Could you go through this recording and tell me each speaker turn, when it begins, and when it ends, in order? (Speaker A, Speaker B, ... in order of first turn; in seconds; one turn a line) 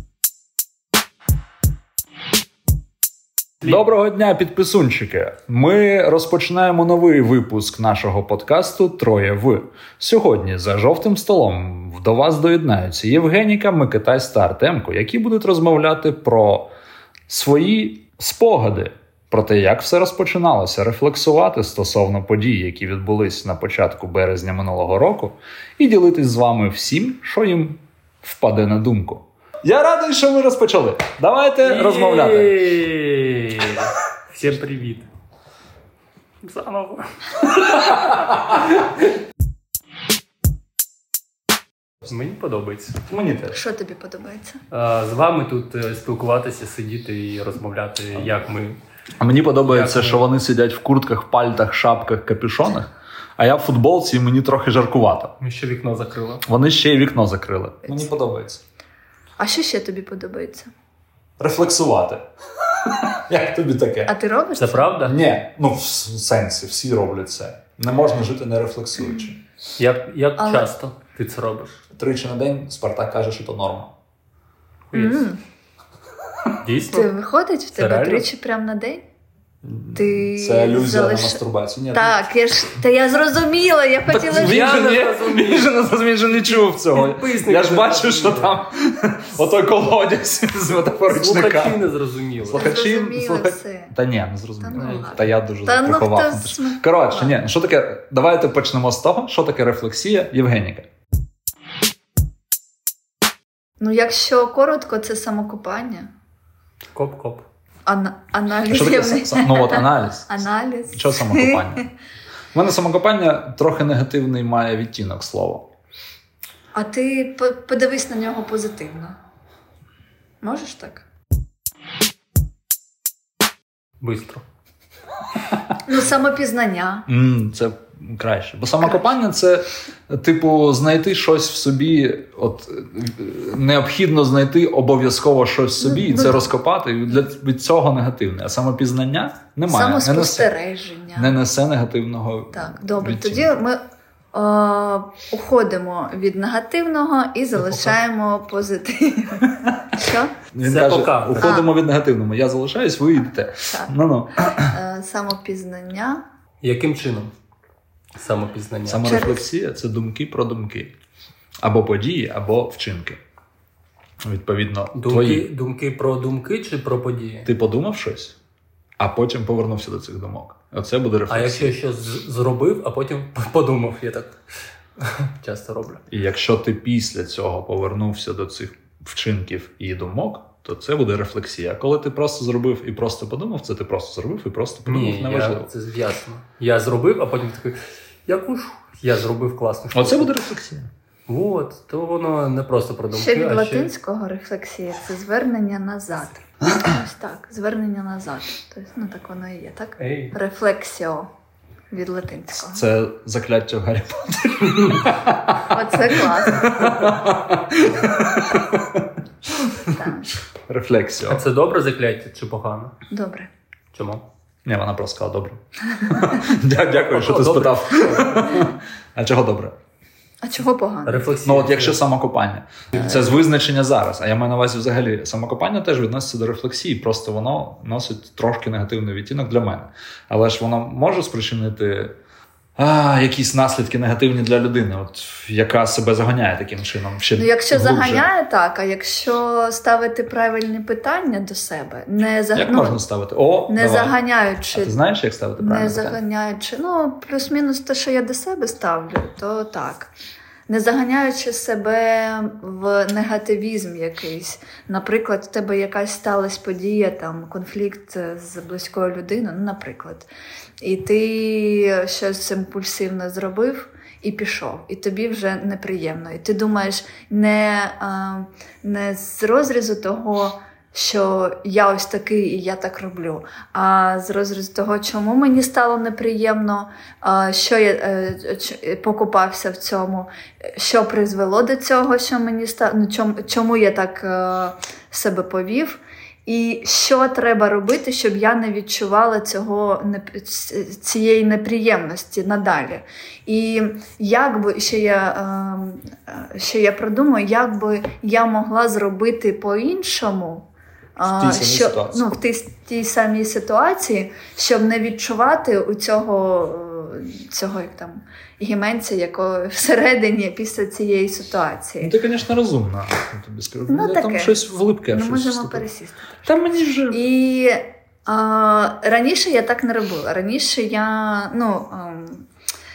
Speaker A: 3.6-16.7
Speaker A: 17.3-32.5
Speaker B: 31.6-35.1
Speaker B: 36.4-37.8
Speaker A: 37.7-38.7
Speaker B: 42.0-43.1
Speaker A: 43.0-43.6
Speaker C: 43.5-44.6
Speaker B: 44.7-48.8
Speaker A: 49.2-55.3
Speaker B: 49.7-50.2
Speaker B: 55.4-56.5
Speaker A: 56.5-58.6
Speaker C: 59.4-60.7
Speaker A: 61.4-64.1
Speaker C: 64.1-65.0
Speaker B: 64.6-65.2
Speaker A: 65.0-69.4
Speaker B: 69.8-71.8
Speaker C: 70.4-70.7
Speaker A: 72.0-73.9
Speaker B: 74.9-75.2
Speaker C: 74.9-75.4
Speaker B: 76.6-77.1
Speaker C: 76.9-79.0
Speaker B: 77.8-78.3
Speaker A: 79.6-82.3
Speaker C: 80.0-81.4
Speaker C: 81.9-84.7
Speaker A: 84.1-91.8
Speaker B: 84.3-85.8
Speaker B: 86.9-88.6
Speaker B: 91.1-92.7
Speaker A: 92.4-100.9
Speaker C: 92.5-94.0
Speaker C: 94.6-97.3
Speaker C: 103.8-106.1
Speaker B: 106.9-107.5
Speaker C: 107.9-111.8
Speaker A: 108.7-111.8
Speaker A: 112.5-115.7
Speaker C: 116.8-119.2
Speaker C: 120.4-121.0
Speaker B: 124.0-124.4
Speaker C: 125.8-127.1
Speaker A: 127.1-140.5
Speaker C: 135.8-136.5
Speaker C: 139.7-141.3
Speaker A: 141.2-143.5
Speaker C: 142.5-143.8
Speaker C: 144.3-150.3
Speaker A: 150.5-154.8
Speaker B: 150.6-151.6
Speaker C: 151.4-151.7
Speaker C: 153.6-153.9
Speaker C: 154.5-156.2
Speaker B: 156.6-157.3
Speaker B: 158.2-159.2
Speaker A: 158.9-160.9
Speaker C: 159.0-159.4
Speaker A: 161.6-163.2
Speaker A: 164.2-165.5
Speaker B: 164.9-167.5
Speaker A: 167.4-168.3
Speaker A: 169.0-171.8
Speaker B: 171.3-174.4
Speaker B: 175.0-176.0
Speaker A: 176.1-185.7
Speaker B: 184.9-190.4
Speaker A: 189.9-190.9
Speaker B: 191.3-193.9
Speaker C: 193.1-201.3
Speaker B: 200.0-200.3
Speaker C: 201.9-202.8
Speaker A: 202.6-209.2
Speaker C: 205.7-206.8
Speaker C: 209.7-210.4
Speaker A: 210.7-211.4
Speaker B: 211.3-213.0
Speaker C: 213.1-213.5
Speaker B: 213.9-214.2
Speaker A: 214.7-219.8
Speaker B: 217.0-218.7
Speaker C: 220.4-221.3
Speaker B: 221.1-222.0
Speaker A: 221.4-232.1
Speaker A: 232.8-238.3
Speaker C: 237.4-243.0
Speaker A: 242.6-244.2
Speaker C: 243.7-244.9
Speaker A: 244.7-246.2
Speaker C: 245.6-250.1
Speaker C: 250.7-260.3
Speaker C: 260.8-300.7
Speaker C: 301.2-312.1
Speaker A: 301.2-302.4
Speaker A: 312.0-315.8
Speaker C: 313.9-316.5
Speaker A: 316.4-317.2
Speaker C: 317.1-322.5